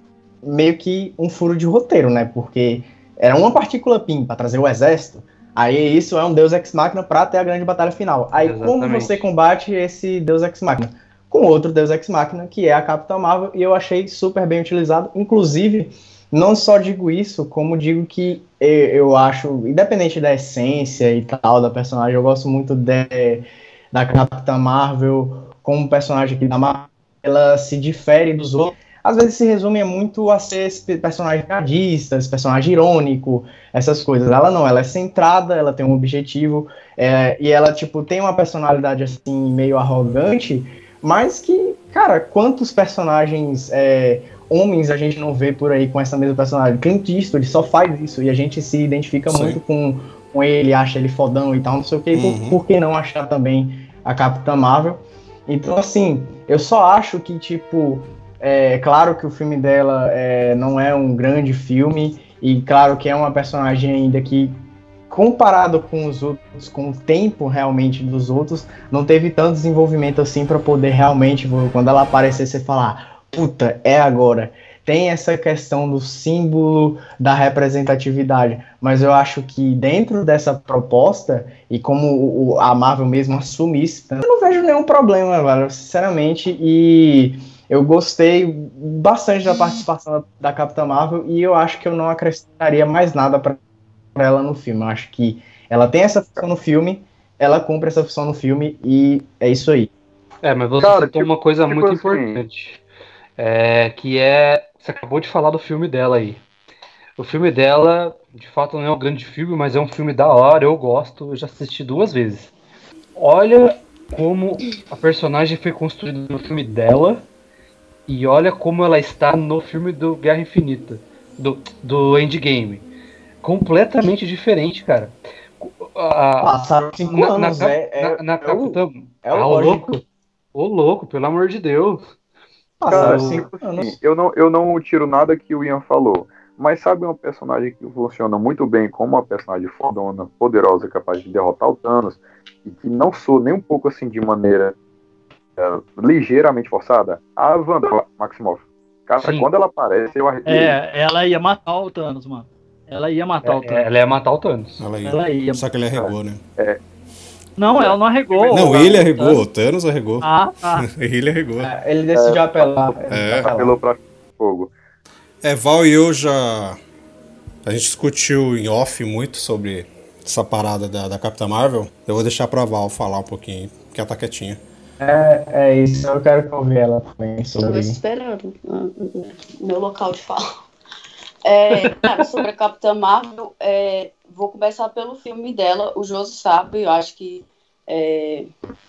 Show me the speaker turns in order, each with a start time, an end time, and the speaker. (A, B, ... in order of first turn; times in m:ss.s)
0:00.4-1:33.6 A
0:08.4-0:09.3 B
0:49.3-0:49.6 C
0:52.1-0:52.6 C
1:34.1-1:39.9 A
1:40.4-1:42.8 B
1:40.8-1:42.4 D
1:43.4-1:46.4 B
1:47.2-1:52.5 B
1:53.2-1:57.3 B
1:58.1-2:02.9 B
2:03.4-2:06.5 B
2:06.4-2:10.0 A
2:07.1-2:10.0 B
2:10.6-2:12.2 B
2:12.8-2:13.9 A
2:12.8-2:24.7 D
2:12.9-2:13.5 B
2:25.6-2:30.7 D
2:29.2-2:29.5 B
2:30.4-2:33.9 E
2:33.4-2:34.9 B
2:34.8-2:36.4 C
2:35.0-2:35.6 E
2:35.9-2:36.8 D
2:37.6-2:39.4 E
2:37.8-2:38.8 D
2:38.5-2:40.3 C
2:40.2-2:40.9 E
2:40.9-2:41.7 C
2:41.6-2:43.8 A
2:42.2-2:44.7 D
2:43.1-2:43.5 C
2:45.4-2:46.8 C
2:47.6-2:54.6 C
2:55.0-2:58.0 A
2:57.7-3:00.4 F
3:01.4-3:08.5 F